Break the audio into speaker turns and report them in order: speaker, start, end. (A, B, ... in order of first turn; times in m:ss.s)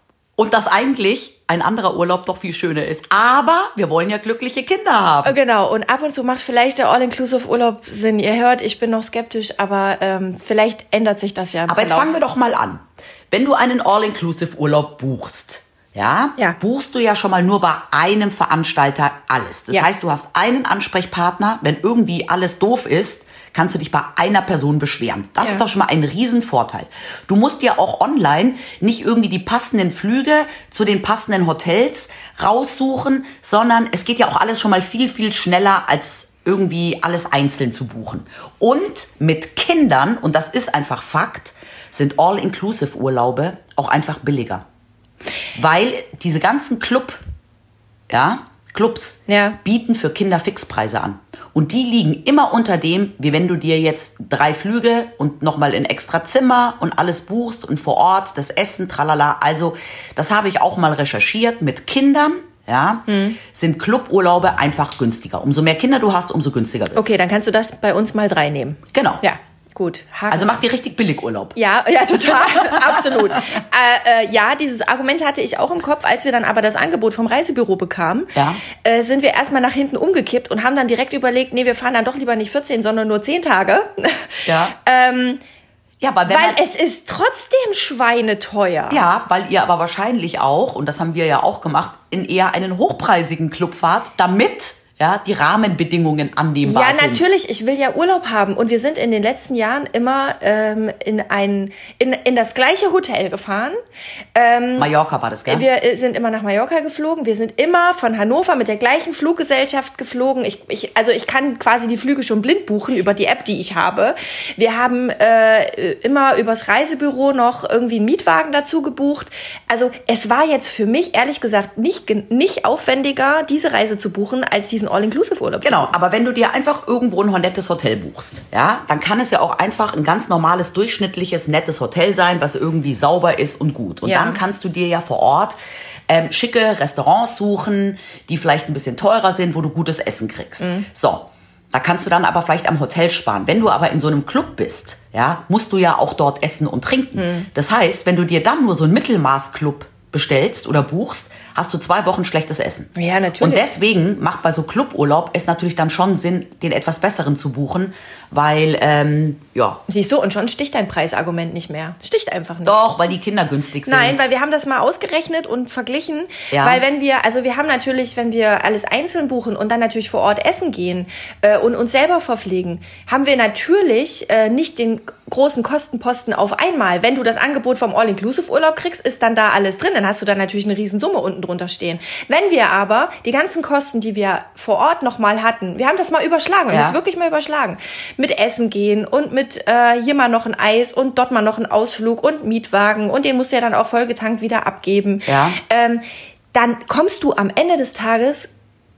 0:00.4-0:05.4 A
0:05.2-0:12.2 B
0:11.7-0:44.6 A
0:45.6-0:47.2 A
0:48.1-1:07.1 A
0:49.3-0:49.6 B
1:03.1-1:03.4 B
1:07.0-1:10.6 B
1:08.9-1:09.2 A
1:10.3-1:11.6 A
1:11.6-1:25.4 B
1:12.1-1:13.6 A
1:18.4-1:18.6 A
1:24.5-1:24.8 A
1:26.0-1:26.6 A
1:26.3-1:29.0 B
1:28.9-1:37.3 A
1:36.6-1:43.8 B
1:44.4-1:44.9 B
1:44.8-1:45.7 A
1:45.5-2:05.9 B
2:05.6-2:15.6 A
2:14.0-2:14.4 B
2:16.1-2:39.8 A
2:20.6-2:20.9 B
2:27.2-2:27.5 B
2:33.0-2:33.7 B
2:39.9-2:42.8 B
2:42.6-2:44.3 A
2:43.9-3:18.5 B
2:46.5-2:46.8 A
3:06.7-3:07.0 A
3:15.3-3:15.6 A